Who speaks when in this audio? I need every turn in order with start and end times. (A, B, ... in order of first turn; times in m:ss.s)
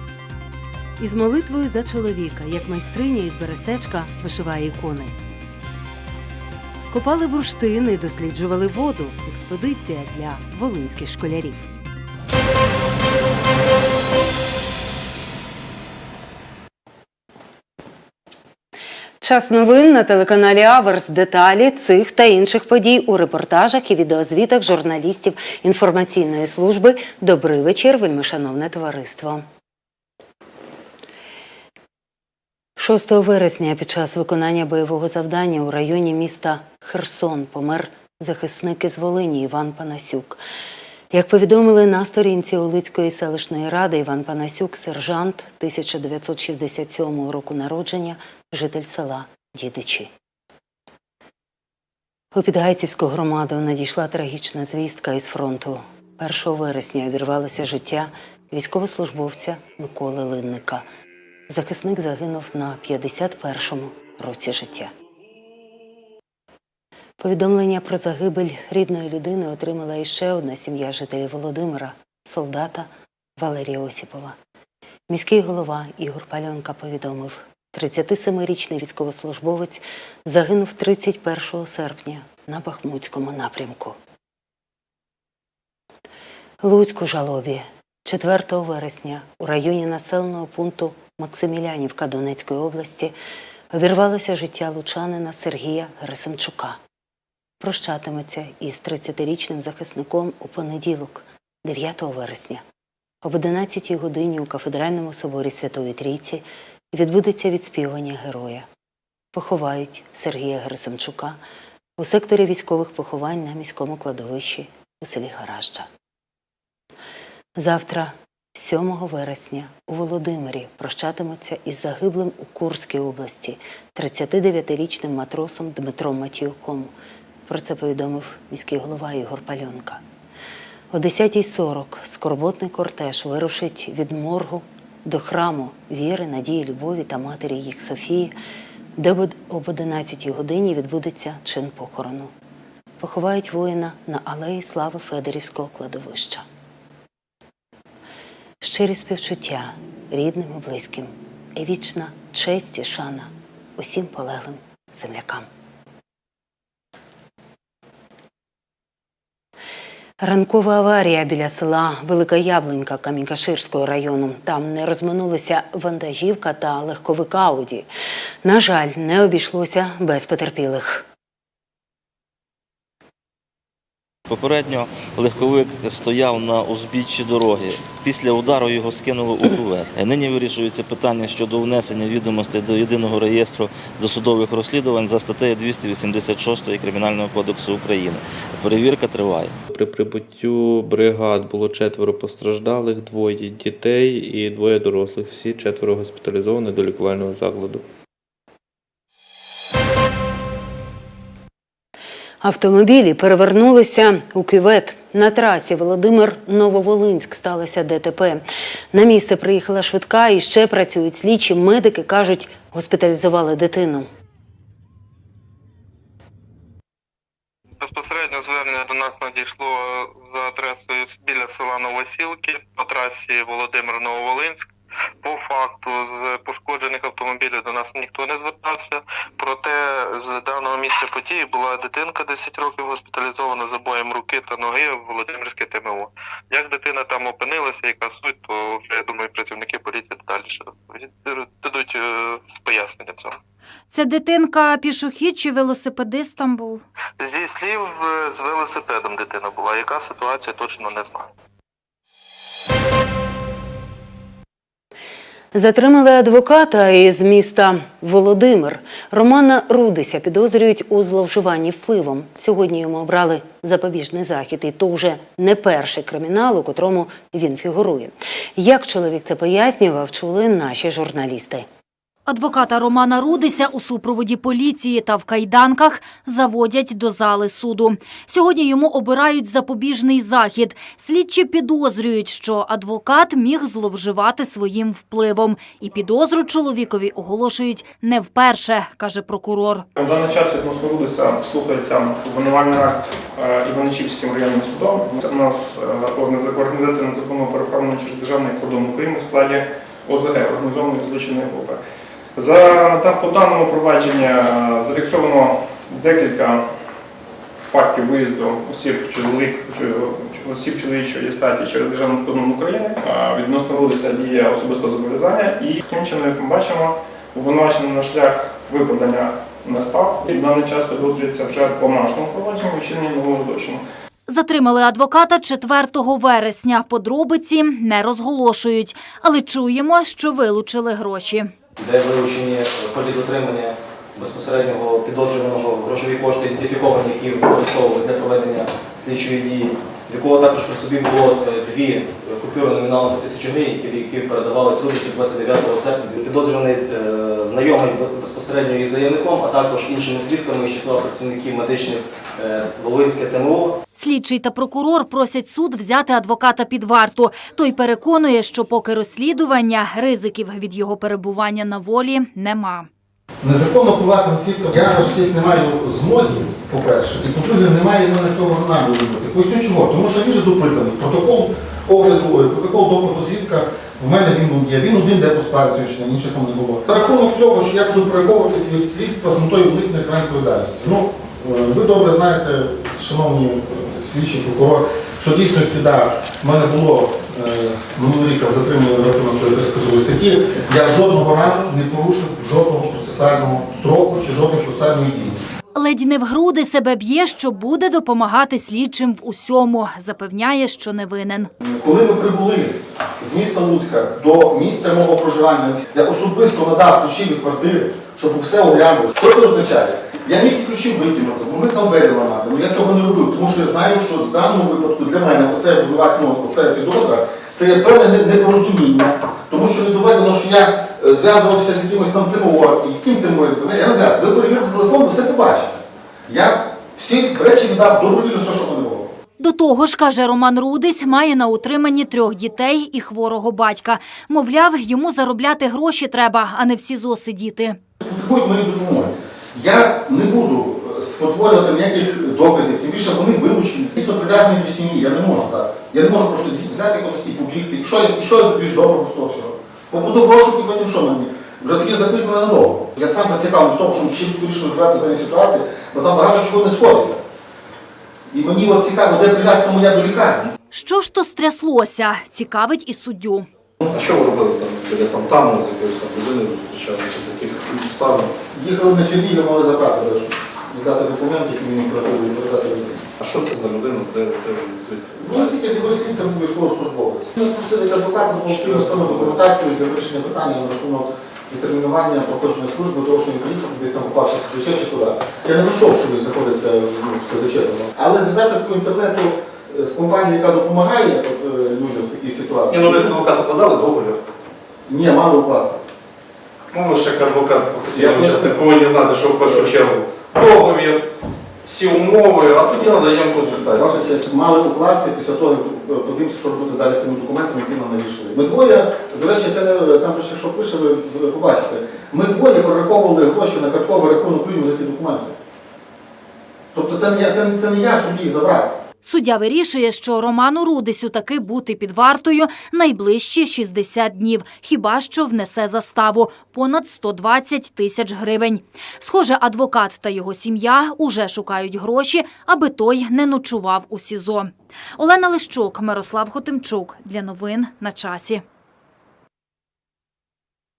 0:01.0-0:05.2 A
0:06.9-0:11.7 A
0:19.2-0:29.4 A
0:32.8-0:40.4 A
0:41.1-0:50.1 A
0:52.3-1:00.8 A
1:01.5-1:04.9 A
1:07.2-1:14.4 A
1:15.1-1:24.0 A
1:26.6-1:33.1 A
1:33.7-1:36.8 A
1:37.6-1:42.6 A
1:43.2-1:48.7 A
1:49.3-1:51.4 A
1:52.0-1:55.9 A
1:57.6-2:06.9 A
2:07.5-2:10.0 A
2:10.9-2:18.3 A
2:19.0-2:22.3 A
2:23.0-2:26.4 A
2:28.6-2:35.5 A
2:40.2-2:47.9 A
2:48.4-2:51.1 A
2:54.3-3:09.6 B
3:09.7-3:17.8 C
3:22.4-3:34.1 A
3:37.8-3:44.7 D
3:45.2-4:03.4 D
4:03.9-4:06.8 E
4:07.2-4:11.3 D
4:15.5-4:31.7 A
4:32.3-4:49.9 E
4:50.0-5:01.8 F
5:02.4-5:06.6 F
5:07.7-5:23.8 F
5:24.3-5:31.5 E
5:31.8-5:53.8 G
5:54.0-6:02.9 E
6:03.4-6:35.4 H
6:35.8-6:41.5 E
6:41.6-7:09.1 H
7:09.4-7:17.8 E
7:18.0-7:37.2 H
7:38.3-7:40.5 H
7:40.7-7:43.5 E
7:43.9-7:48.4 I
7:48.5-7:53.1 H
7:53.2-7:55.6 I
7:55.2-8:13.2 H
7:58.4-7:59.4 I
8:12.7-8:14.2 I
8:14.9-8:15.8 H
8:16.7-8:21.0 I
8:17.9-8:18.6 H
8:19.4-8:19.7 H
8:21.6-8:24.1 I
8:23.4-8:35.3 H
8:36.7-8:38.8 H
8:39.0-8:58.4 E